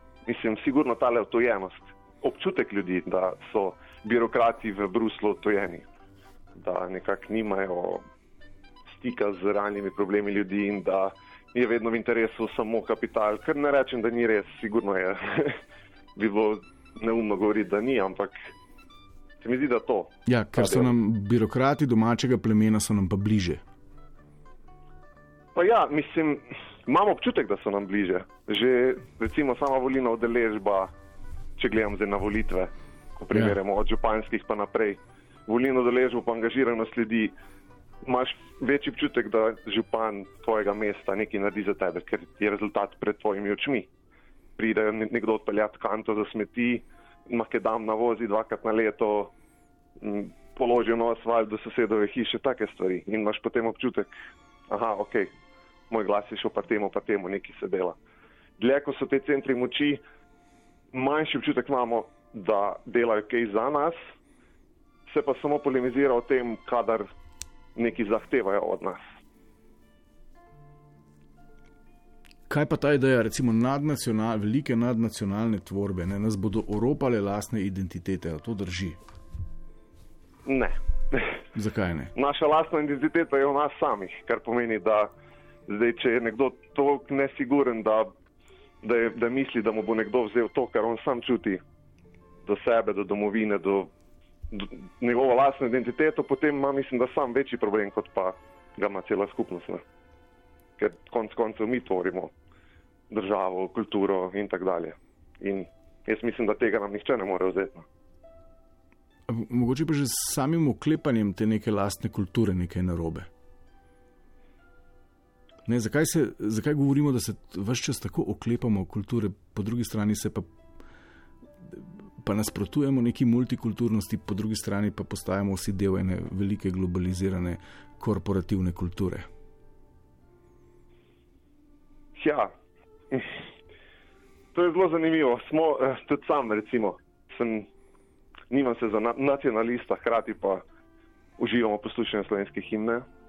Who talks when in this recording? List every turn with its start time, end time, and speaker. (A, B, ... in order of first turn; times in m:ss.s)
0:00.2-0:05.8 A
0:06.6-0:08.0 A
0:08.9-0:15.6 A
0:16.2-0:18.4 A
0:19.4-0:20.9 A
0:20.2-0:23.6 B
0:25.5-0:30.9 A
0:31.6-0:37.3 A
0:33.3-0:33.6 B
0:38.0-0:43.9 A
0:44.6-0:49.3 A
0:50.0-0:54.1 A
0:54.7-0:55.3 A
0:55.9-0:58.0 A
0:58.6-1:00.0 A
1:00.9-1:04.0 A
1:05.1-1:07.1 A
1:07.8-1:09.1 A
1:12.5-1:19.0 B
1:20.4-1:21.4 A
1:21.5-1:22.1 B
1:22.2-1:25.1 A
1:25.7-1:28.1 A
1:28.8-1:31.6 A
1:32.4-1:33.9 A
1:34.5-1:39.8 A
1:40.8-1:42.3 A
1:43.1-1:47.8 A
1:49.3-1:53.3 B
1:55.6-2:00.5 B
2:01.6-2:09.3 B
2:12.2-2:12.5 A
2:13.1-2:13.4 A
2:14.5-2:17.7 A
2:18.5-2:20.6 A
2:21.4-2:23.0 A